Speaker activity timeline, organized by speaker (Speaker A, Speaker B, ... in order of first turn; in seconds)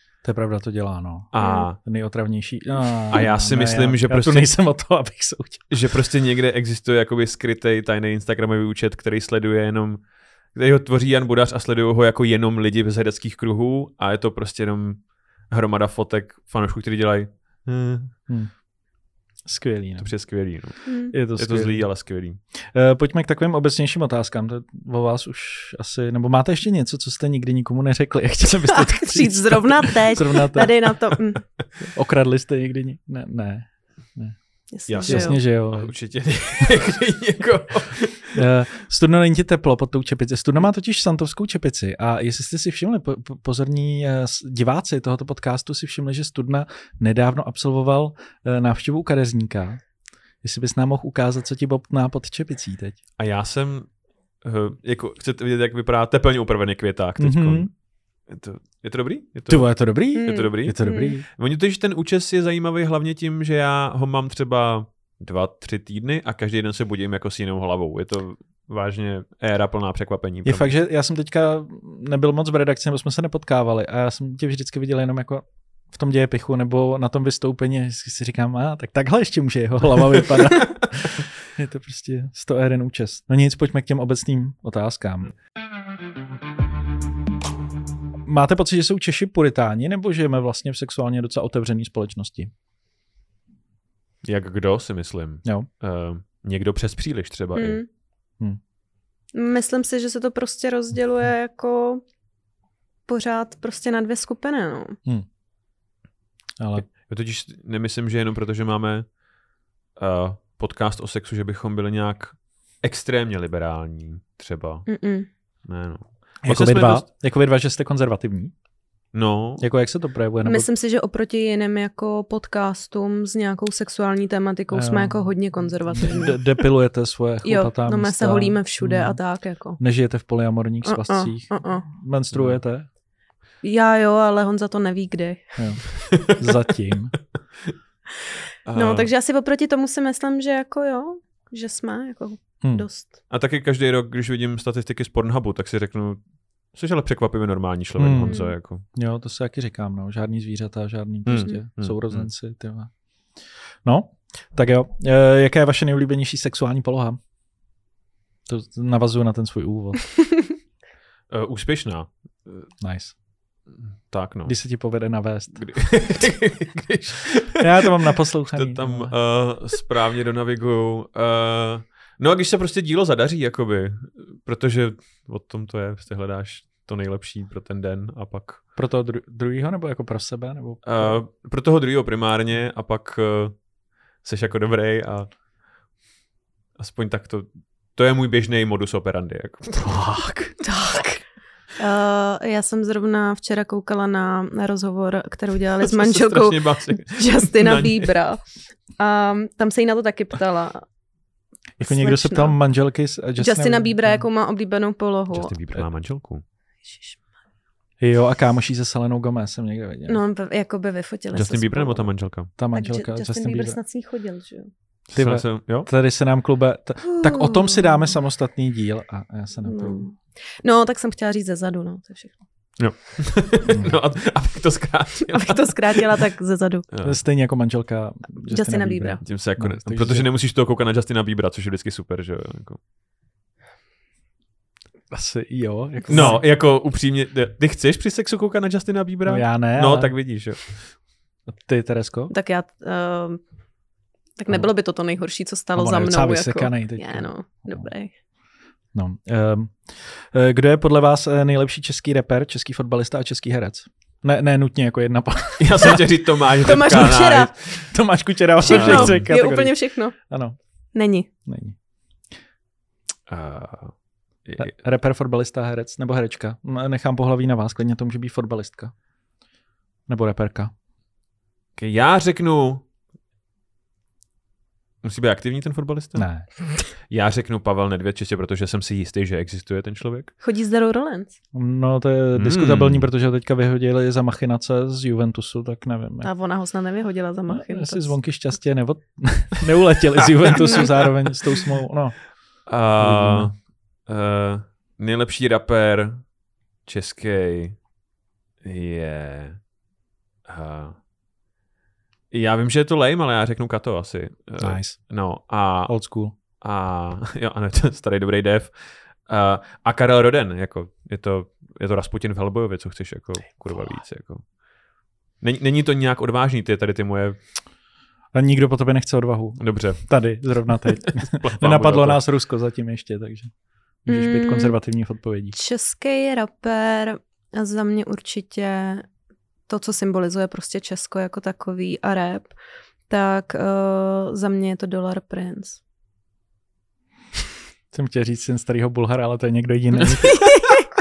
Speaker A: 0.2-5.8, 19.4-20.1, 21.1-21.9, 22.7-30.8, 31.8-34.4, 35.1-35.9, 38.3-49.8, 50.4-53.0, 57.2-57.7, 59.5-61.2, 70.5-85.3, 88.2-92.5, 106.6-106.9, 116.4-118.5, 119.6-120.7, 124.7-125.3, 125.9-129.2, 129.8-132.9, 135.6-137.2, 148.0-148.4, 148.9-152.9, 153.8-157.2, 158.5-160.1, 162.8-163.2, 164.5-165.7, 167.6-169.2, 178.8-181.2, 189.8-190.5, 201.8-204.3, 208.0-210.2, 212.6-213.8, 215.1-220.1, 223.7-224.0, 227.0-230.3, 235.1-236.4, 239.3-240.2, 241.5-242.3, 245.8-247.9, 248.9-256.1, 257.9-260.6, 261.5-261.8, 264.6-268.9, 270.1-270.7, 276.2-276.5, 281.5-286.3, 287.5-292.2, 293.0-293.5, 304.6-305.0, 305.9-306.3, 318.3-323.5, 324.0-325.6, 337.9-340.6
Speaker B: 1.3-1.8, 3.1-4.5, 5.7-18.2, 20.0-22.4, 34.9-38.4, 53.2-53.9, 54.4-57.7, 58.3-70.7, 94.2-97.8, 106.8-109.1, 110.0-114.9, 115.7-117.1, 119.1-119.7, 132.3-132.6, 136.0-136.4, 138.7-139.1, 143.3-146.2, 146.7-148.9, 151.3-152.3, 161.3-162.7, 163.8-164.6, 165.6-167.9, 168.5-178.6, 180.8-183.6, 184.2-185.3, 186.8-190.2, 195.8-198.1, 205.3-206.4, 211.3-212.5, 215.1-215.9, 222.8-226.1, 226.9-227.2, 229.2-232.8, 236.1-240.9, 255.6-257.5, 258.6-259.3, 263.3-264.7, 271.8-272.9, 275.0-276.3, 277.1-280.3, 282.4-283.1, 292.7-296.2, 296.9-297.8, 298.6-299.6, 300.5-301.0, 302.3-305.9, 306.6-314.5, 315.4-317.4, 319.6-320.1, 321.0-322.2, 340.2-340.7
Speaker C: 1.4-1.7, 20.9-21.1, 28.7-31.5, 34.7-35.4, 60.1-61.2, 97.6-97.9, 99.3-102.0, 103.1-105.0, 114.9-115.3, 120.5-126.7, 127.4-129.8, 130.8-131.9, 133.6-135.6, 138.8-143.1, 148.3-148.5, 190.6-191.2, 191.8-198.4, 199.0-200.8, 201.8-202.6, 203.4-205.5, 206.8-207.2, 210.1-212.1, 212.7-214.7, 217.1-218.2, 219.7-222.4, 225.3-226.9, 228.5-229.2, 242.3-243.4, 244.4-248.1, 256.6-257.5, 258.6-260.2, 260.9-261.3, 280.4-281.3, 286.2-288.1, 290.6-290.9, 324.1-324.8, 325.5-329.1, 329.7-332.5, 333.1-335.8, 340.3-340.9